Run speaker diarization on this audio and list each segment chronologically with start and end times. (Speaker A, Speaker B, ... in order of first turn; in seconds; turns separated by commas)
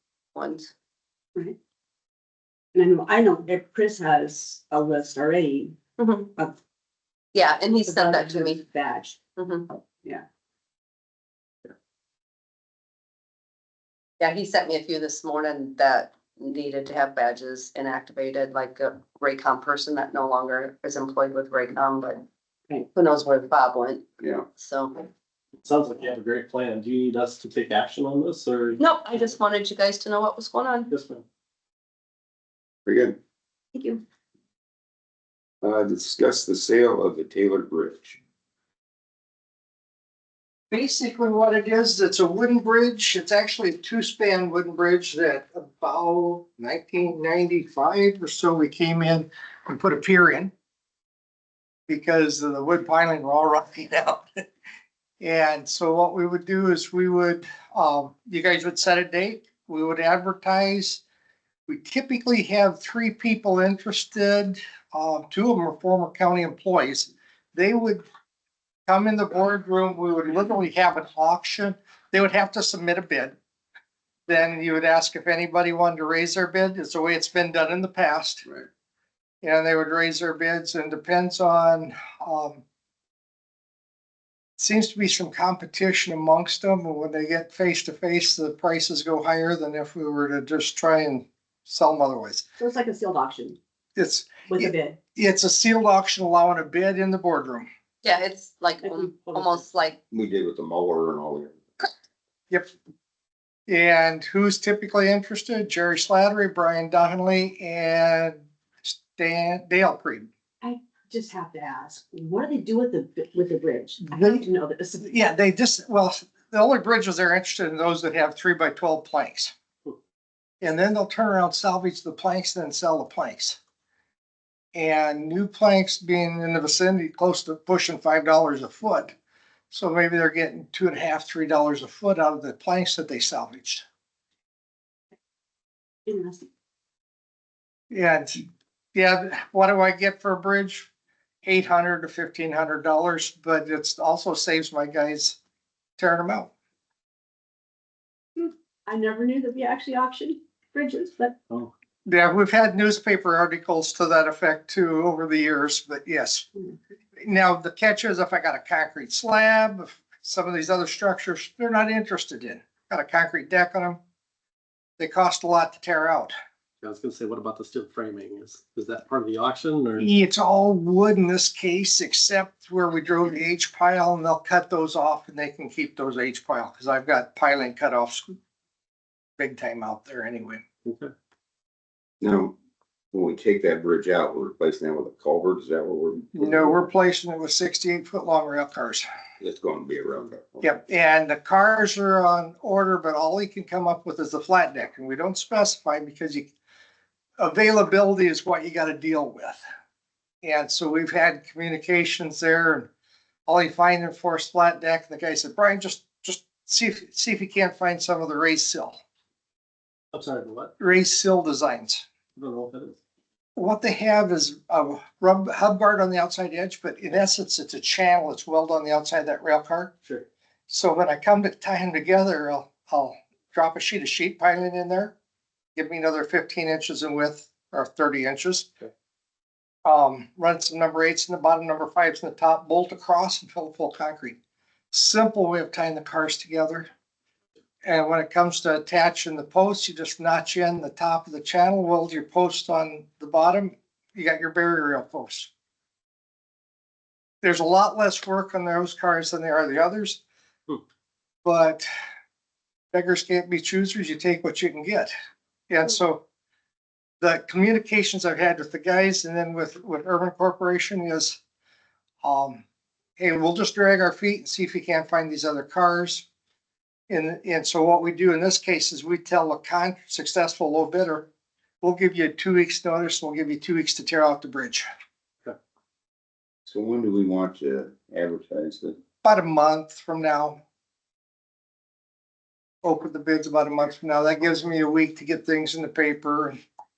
Speaker A: 0.3-0.7, Speaker B: 2.7-5.8, Speaker A: 6.0-6.3, Speaker A: 7.3-8.6, Speaker B: 7.9-9.2, Speaker A: 9.4-9.7, Speaker A: 14.2-22.2, Speaker A: 22.9-25.0, Speaker C: 25.6-28.8, Speaker A: 28.8-30.9, Speaker C: 30.9-31.2, Speaker D: 32.9-33.2, Speaker A: 33.7-34.0, Speaker D: 35.6-38.2, Speaker E: 40.7-50.5, Speaker E: 51.9-54.2, Speaker E: 55.2-61.0, Speaker E: 61.7-68.0, Speaker E: 68.9-73.4, Speaker E: 74.3-78.5, Speaker E: 79.4-82.6, Speaker E: 84.6-92.5, Speaker B: 92.6-93.6, Speaker E: 94.0-97.7, Speaker B: 94.5-95.0, Speaker A: 98.0-100.0, Speaker B: 98.8-99.6, Speaker D: 100.1-101.6, Speaker E: 103.7-110.3, Speaker B: 110.6-115.1, Speaker E: 114.1-114.4, Speaker E: 115.0-119.5, Speaker E: 120.6-123.6, Speaker E: 124.8-129.1, Speaker E: 129.7-133.8, Speaker B: 136.1-136.5, Speaker E: 137.9-138.4, Speaker E: 138.9-140.9, Speaker E: 141.4-145.4, Speaker E: 146.0-146.5, Speaker B: 148.4-151.4, Speaker E: 152.1-156.5, Speaker E: 157.2-164.0, Speaker E: 165.0-166.3, Speaker C: 166.8-170.1, Speaker E: 170.0-178.3, Speaker E: 179.4-180.6, Speaker C: 180.8-181.1, Speaker D: 182.2-182.6, Speaker D: 183.1-186.8, Speaker E: 186.3-189.1, Speaker D: 189.4-190.8, Speaker E: 190.6-196.5, Speaker E: 197.4-199.6, Speaker E: 200.4-202.9, Speaker E: 203.5-209.0, Speaker C: 210.1-210.7, Speaker E: 210.8-212.0, Speaker C: 212.4-213.0, Speaker E: 213.6-219.9, Speaker E: 220.7-225.1, Speaker E: 225.8-228.7, Speaker E: 229.8-234.4, Speaker E: 234.9-236.9, Speaker E: 237.8-245.5, Speaker E: 247.4-250.2, Speaker E: 251.4-251.9, Speaker E: 252.9-255.1, Speaker E: 255.7-256.2, Speaker E: 257.2-261.4, Speaker E: 262.2-262.6, Speaker E: 263.2-266.2, Speaker E: 267.1-271.3, Speaker E: 271.8-274.9, Speaker D: 276.7-279.0, Speaker E: 279.2-280.6, Speaker E: 282.8-286.6